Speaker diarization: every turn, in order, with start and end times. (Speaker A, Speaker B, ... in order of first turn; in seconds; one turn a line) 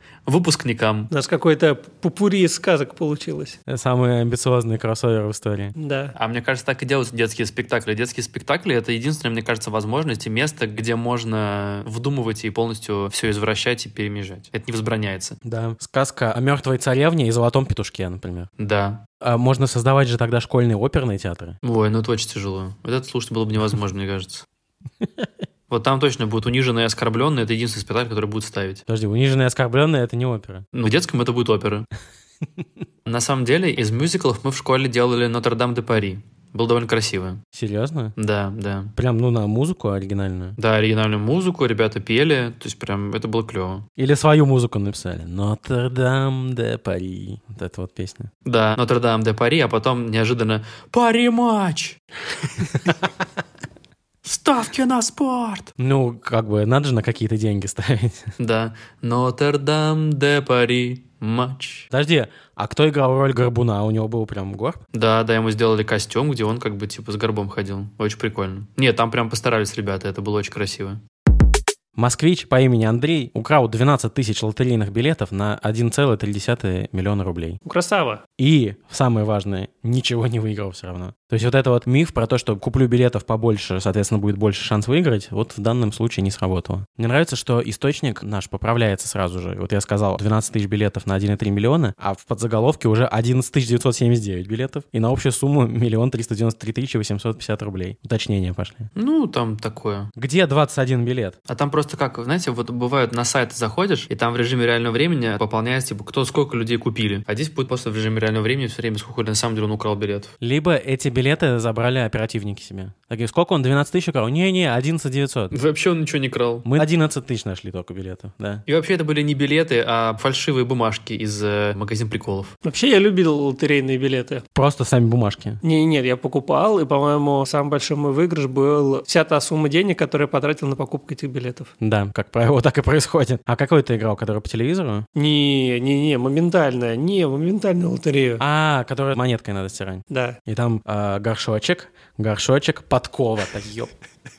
Speaker A: 0.3-1.1
Speaker B: 1.1-3.6
Speaker C: 3.7-5.7
Speaker B: 5.8-6.1
Speaker A: 6.2-15.4
Speaker C: 15.4-18.5
Speaker A: 18.6-19.0
Speaker C: 19.2-21.6
Speaker A: 21.6-24.4
Speaker A: 25.7-28.8
Speaker C: 28.9-30.6
Speaker A: 30.7-31.9
Speaker A: 33.1-37.4
Speaker C: 37.5-38.1
Speaker A: 38.2-38.9
Speaker C: 39.0-40.6
Speaker A: 40.6-43.9
Speaker C: 44.0-48.3
Speaker A: 48.5-53.0
Speaker A: 54.2-55.7
Speaker C: 55.8-58.3
Speaker A: 58.4-61.9
Speaker C: 61.9-64.8
Speaker A: 64.9-71.0
Speaker C: 72.0-77.6
Speaker B: 77.7-78.2
Speaker C: 78.4-98.9
Speaker A: 99.0-100.1
Speaker C: 100.2-101.4
Speaker A: 101.5-110.3
Speaker C: 110.4-115.5
Speaker A: 115.5-116.7
Speaker C: 116.7-118.6
Speaker A: 118.7-122.5
Speaker B: 122.6-124.4
Speaker C: 124.5-125.6
Speaker B: 125.6-131.7
Speaker C: 131.8-135.1
Speaker B: 135.2-138.4
Speaker C: 138.4-143.9
Speaker B: 140.1-140.4